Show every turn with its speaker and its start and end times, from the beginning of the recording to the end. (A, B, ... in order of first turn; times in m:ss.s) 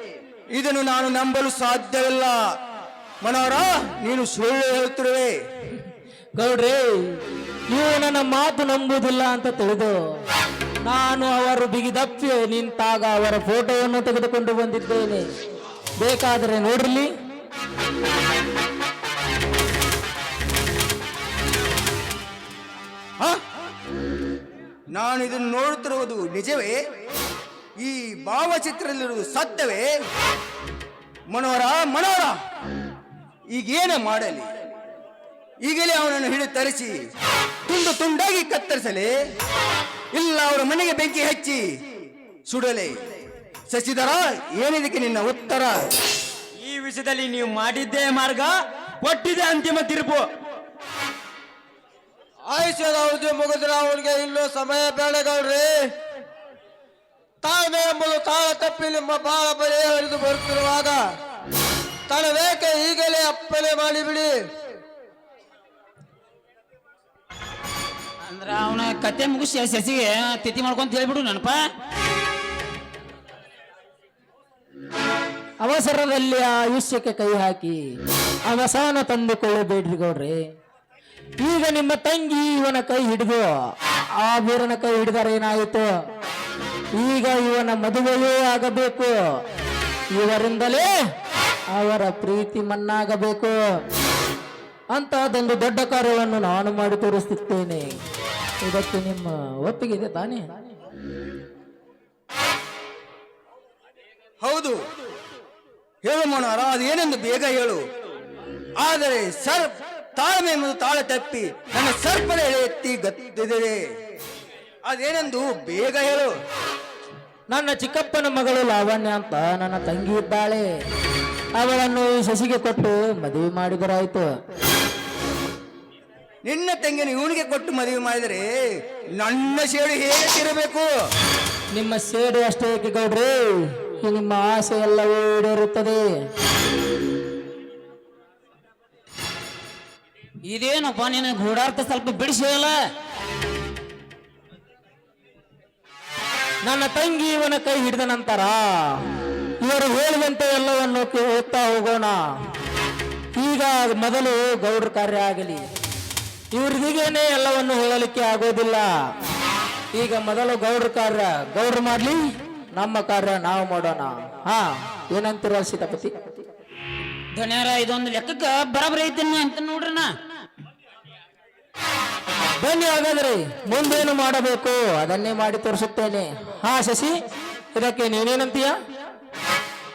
0:00.5-0:02.4 A
0:03.2-0:05.3 A
0:06.4-0:07.2 B
0:07.7-0:09.9 B
0:10.8-0:15.2 B
0:16.0-0:17.1 B
0:24.9-0:26.8 A
0:27.8-0:29.9 A
0:31.3-0:32.4 A
0:33.5-0:34.5 A
0:35.6-0:36.9 A
0:37.7-0:39.1 A
0:40.1-0:41.6 A
0:42.5-0:42.9 A
0:43.7-0:45.8 A
0:46.6-0:50.2 C
0:52.5-0:55.8 D
0:57.4-1:01.0 D
1:02.1-1:04.4 D
1:08.3-1:11.6 E
1:15.6-1:17.8 B
1:18.5-1:20.4 B
1:21.4-1:23.5 B
1:24.2-1:25.9 B
1:27.0-1:29.2 B
1:30.2-1:30.9 B
1:31.7-1:33.6 B
1:34.9-1:37.9 B
1:38.6-1:40.4 B
1:44.4-1:44.8 A
1:46.0-1:47.8 A
1:48.8-1:53.8 A
1:54.8-1:56.3 A
1:57.5-2:00.7 B
2:01.6-2:04.3 B
2:06.4-2:08.4 A
2:09.2-2:10.9 A
2:11.7-2:16.0 B
2:20.4-2:22.8 E
2:26.7-2:29.0 B
2:29.6-2:32.2 B
2:33.4-2:35.7 B
2:36.5-2:38.9 B
2:39.9-2:46.2 B
2:47.3-2:50.1 E
2:52.6-2:57.1 B
2:57.7-2:58.8 B